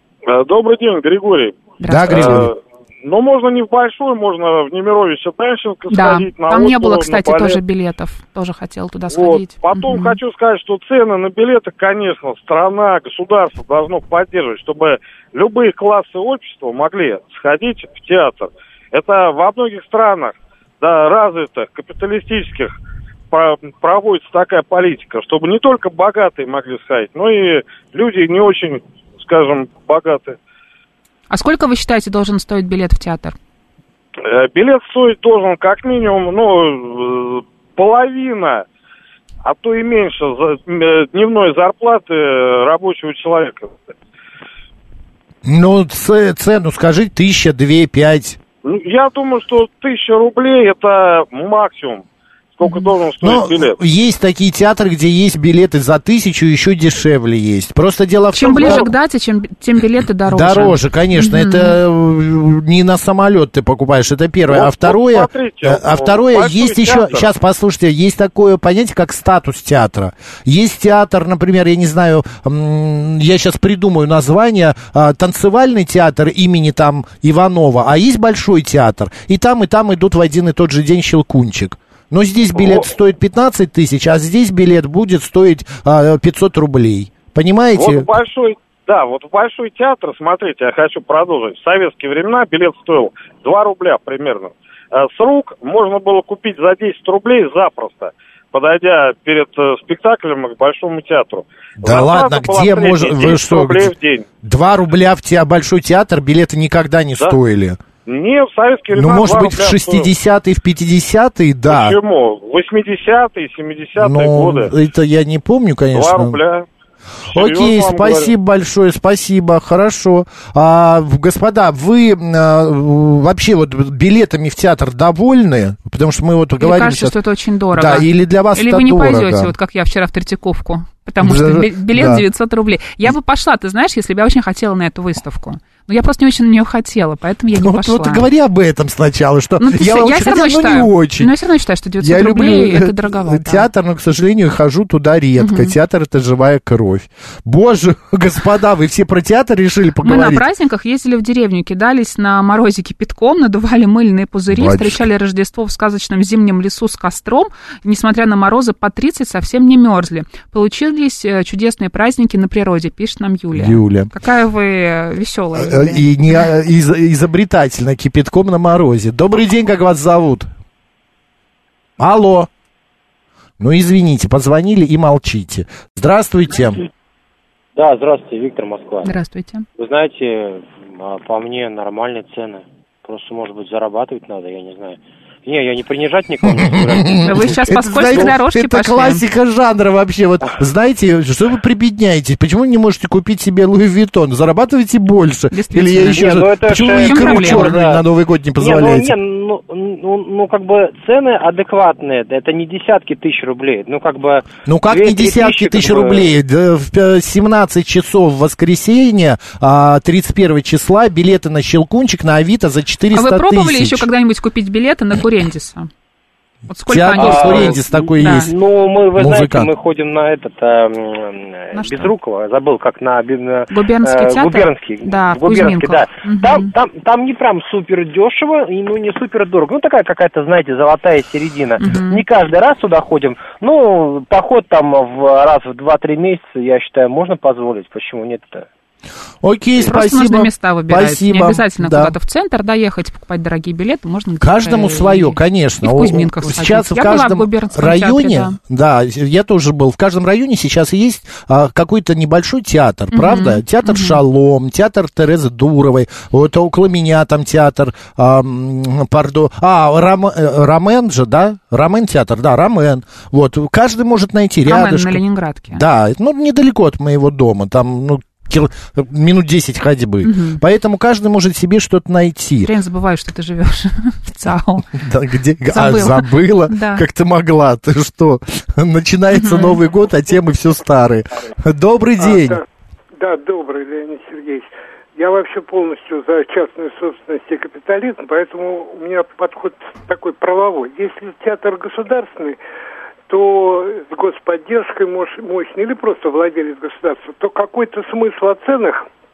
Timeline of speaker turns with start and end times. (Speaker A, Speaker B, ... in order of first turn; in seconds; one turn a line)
Speaker A: 0.3-7.6
Speaker B: 1.8-2.5
Speaker C: 1.9-2.5
Speaker B: 5.9-10.2
Speaker A: 9.1-22.8
Speaker A: 23.3-30.4
Speaker B: 31.3-33.4
Speaker A: 34.2-38.6
Speaker A: 39.4-43.9
Speaker C: 45.4-48.4
Speaker A: 48.6-52.0
Speaker A: 52.6-53.8
Speaker B: 52.6-52.9
Speaker C: 53.2-58.9
Speaker B: 58.3-61.8
Speaker A: 58.5-58.9
Speaker C: 60.3-88.1
Speaker A: 64.5-67.3
Speaker A: 87.8-104.3
Speaker C: 101.8-107.8
Speaker A: 108.1-110.1
Speaker C: 108.9-112.0
Speaker A: 111.7-114.7
Speaker C: 114.0-116.4
Speaker A: 115.9-116.7
Speaker A: 117.3-118.3
Speaker C: 117.3-127.2
Speaker B: 126.6-138.3
Speaker C: 127.7-129.5
Speaker C: 131.2-132.2
Speaker C: 137.5-141.3
Speaker B: 139.6-143.7
Speaker C: 142.0-150.5
Speaker B: 145.4-145.7
Speaker B: 150.0-166.1
Speaker C: 154.5-155.0
Speaker C: 163.5-164.1
Speaker C: 165.6-170.5
Speaker C: 172.0-172.5
Speaker C: 173.6-176.8
Speaker D: 177.8-179.1
Speaker B: 179.0-179.6
Speaker D: 179.8-188.3
Speaker C: 186.7-199.1
Speaker B: 187.2-189.2
Speaker B: 195.5-197.8
Speaker D: 196.0-198.0
Speaker D: 198.6-206.3
Speaker C: 204.7-214.1
Speaker B: 213.1-215.9
Speaker B: 216.7-218.5
Speaker C: 216.9-218.5
Speaker D: 217.2-238.7
Speaker C: 219.2-219.7
Speaker B: 221.7-222.1
Speaker B: 223.7-226.7
Speaker B: 231.8-232.2
Speaker C: 239.4-242.1
Speaker B: 239.9-248.6
Speaker C: 244.4-272.7
Speaker B: 253.1-254.2
Speaker B: 264.6-265.8
Speaker B: 270.2-270.6
Speaker B: 272.6-274.9
Speaker C: 274.9-282.6
Speaker B: 275.7-277.0
Speaker B: 279.3-279.8
Speaker E: 282.2-282.6
Speaker E: 283.1-292.6
Speaker E: 293.3-299.1